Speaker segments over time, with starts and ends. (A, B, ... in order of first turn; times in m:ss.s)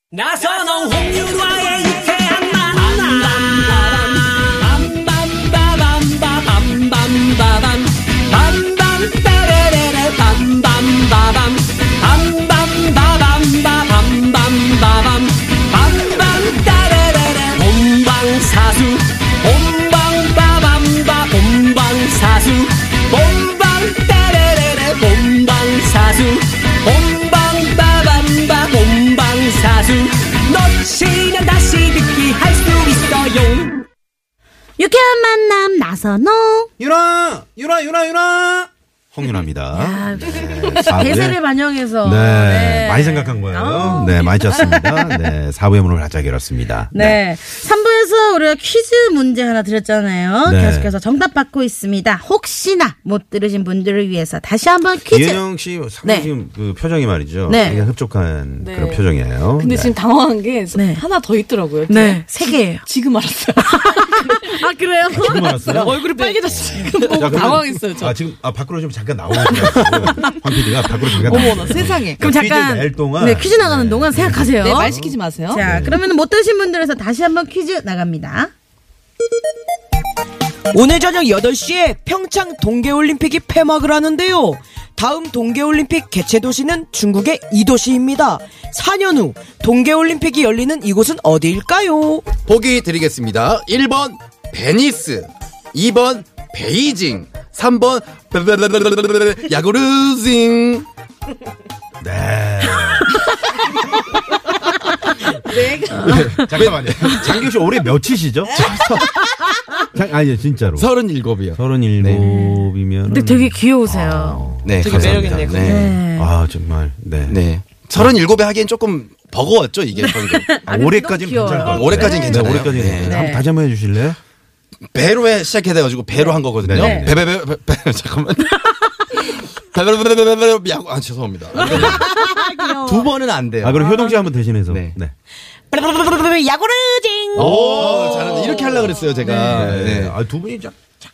0:00.1-0:33.9 A
0:34.8-0:36.7 B
0:36.8-0:41.4 C
0:39.8-0:45.2 B
0:42.0-0:47.2 C
0:43.8-0:44.9 D
0:46.9-0:56.3 B
0:50.4-0:51.0 C
0:55.1-1:00.0 C
0:57.5-0:57.8 B
0:58.6-1:04.6 D
1:00.7-1:01.0 B
1:01.9-1:02.8 B
1:03.6-1:05.9 B
1:05.1-1:06.0 C
1:05.7-1:07.8 E
1:06.1-1:08.2 D
1:07.2-1:16.0 C
1:09.8-1:10.3 D
1:11.1-1:12.2 D
1:12.2-1:18.5 B
1:14.6-1:15.6 D
1:20.7-1:32.4 E
1:32.3-1:40.9 F
1:42.0-1:43.1 C
1:45.5-1:46.3 D
1:46.0-1:49.1 C
1:46.0-1:46.4 B
1:46.4-1:47.5 F
1:49.9-1:50.9 C
1:50.8-1:52.3 F
1:51.5-1:57.4 C
1:52.2-1:54.6 B
1:54.6-1:56.0 F
1:54.8-1:55.9 E
1:55.6-1:56.3 B
1:57.3-2:00.6 F
2:00.0-2:03.5 B
2:00.7-2:04.2 C
2:01.6-2:03.2 F
2:04.9-2:12.1 F
2:06.6-2:07.2 C
2:06.8-2:07.1 B
2:11.5-2:13.1 E
2:11.6-2:12.0 C
2:12.8-2:13.9 F
2:13.6-2:15.1 C
2:13.8-2:14.2 E
2:14.7-2:15.0 F
2:15.7-2:19.0 E
2:17.3-2:20.2 F
2:17.4-2:18.5 C
2:19.2-2:19.7 B
2:19.3-2:20.8 C